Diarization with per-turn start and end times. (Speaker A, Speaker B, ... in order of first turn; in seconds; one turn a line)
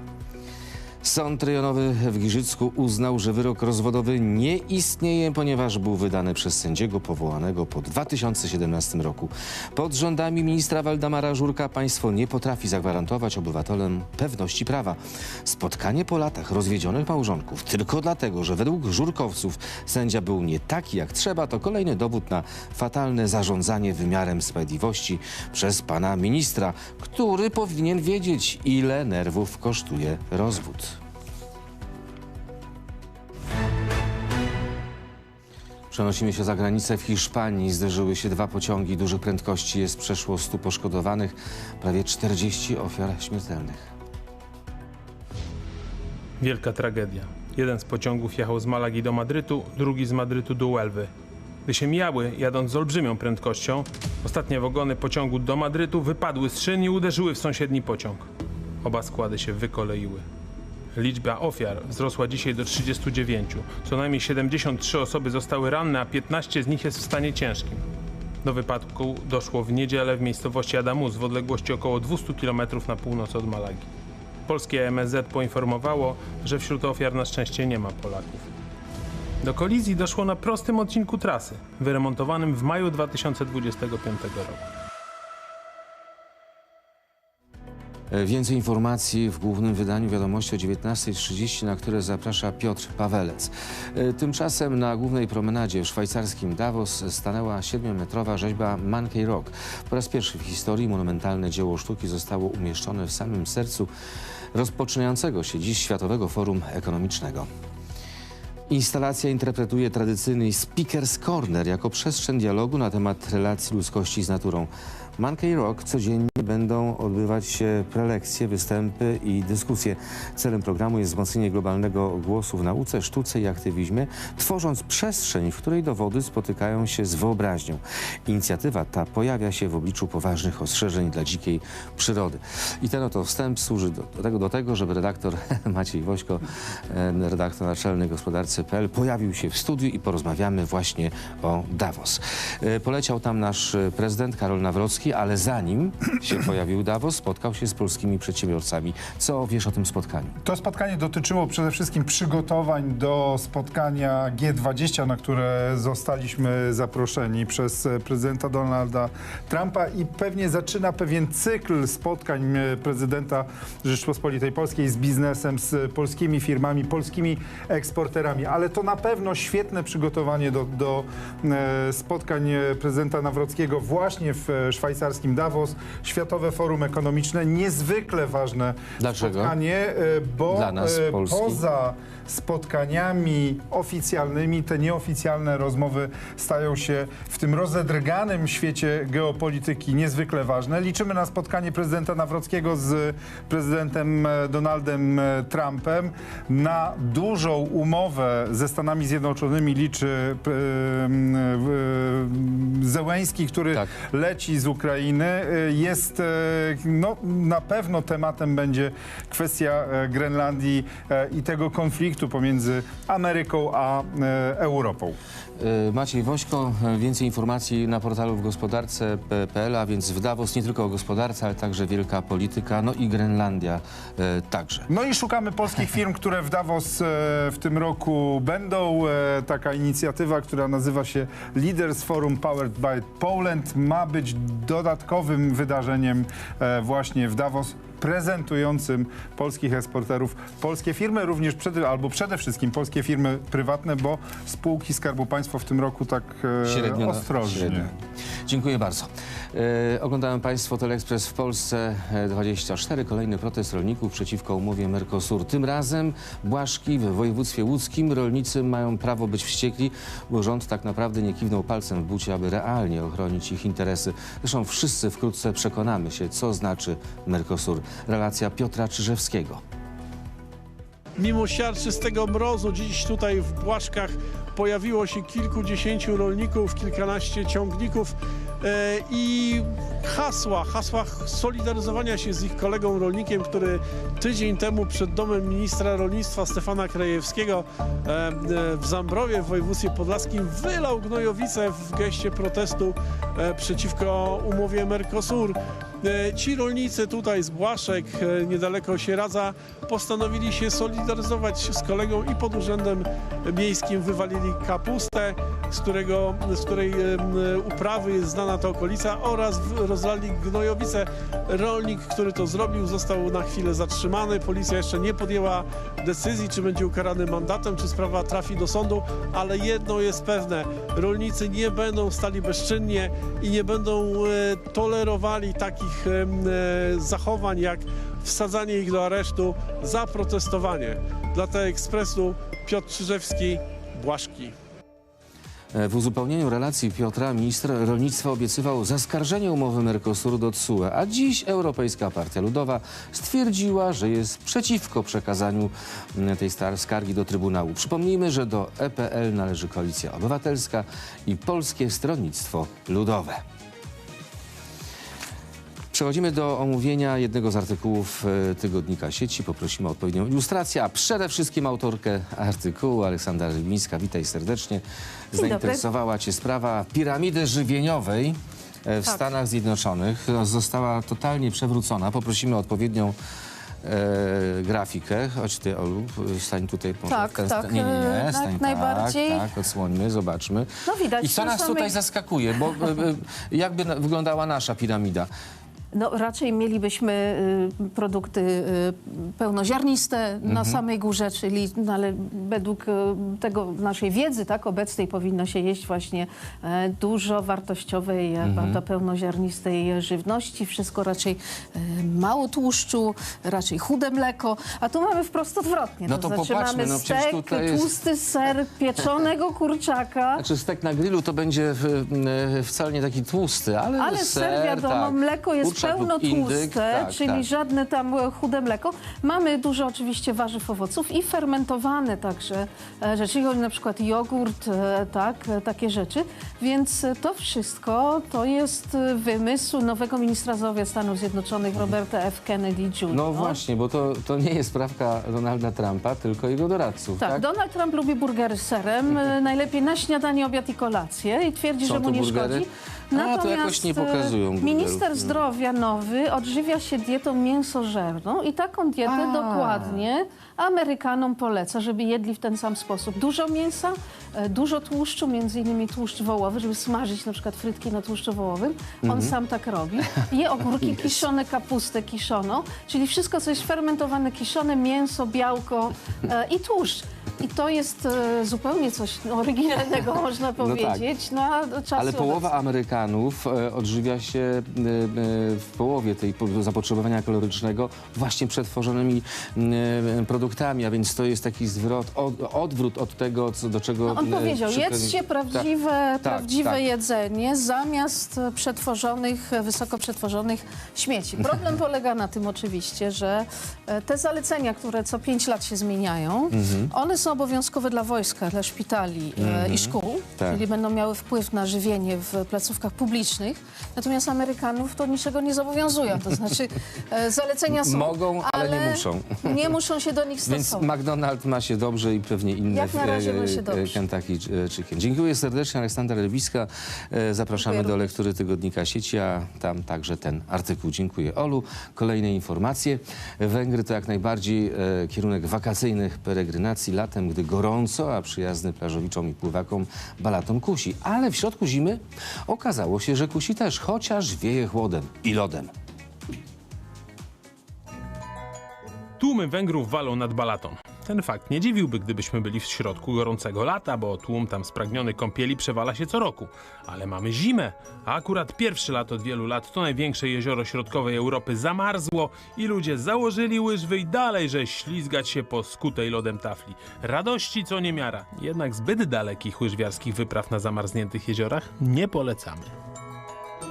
Speaker A: 1.0-31.0
Speaker A: 35.9-43.9
Speaker B: 46.4-51.1
Speaker B: 51.7-58.3
Speaker B: 58.8-60.2
Speaker B: 60.9-67.8
Speaker B: 68.4-73.9
Speaker B: 74.5-78.5
Speaker B: 79.4-84.7
Speaker A: 88.1-103.9
Speaker A: 104.5-107.5
Speaker A: 108.7-150.3
Speaker C: 150.4-215.2
Speaker A: 179.0-179.6
Speaker A: 180.5-181.6
Speaker A: 215.6-224.9
Speaker C: 224.9-247.9
Speaker A: 246.7-247.9
Speaker A: 248.5-269.6
Speaker D: 271.2-334.5
Speaker A: 335.7-353.4
Speaker A: 355.9-373.1
Speaker E: 365.3-365.8
Speaker A: 373.8-385.3
Speaker E: 377.1-379.5
Speaker E: 380.9-381.9
Speaker E: 385.9-410.4
Speaker A: 390.4-390.8
Speaker A: 398.4-398.8
Speaker A: 406.1-407.9
Speaker A: 410.4-417.5
Speaker E: 414.0-433.6
Speaker A: 433.1-437.4
Speaker E: 437.2-472.5
Speaker A: 441.8-445.4
Speaker A: 449.0-450.1
Speaker A: 459.0-459.3
Speaker A: 470.6-471.1
Speaker A: 471.9-485.7
Speaker E: 484.1-510.9
Speaker A: 486.2-486.8
Speaker A: 496.5-496.9
Speaker A: 499.4-500.6
Speaker A: 507.7-509.7
Speaker A: 510.5-535.7
Speaker E: 512.7-514.0
Speaker E: 517.6-518.0
Speaker B: 539.2-562.7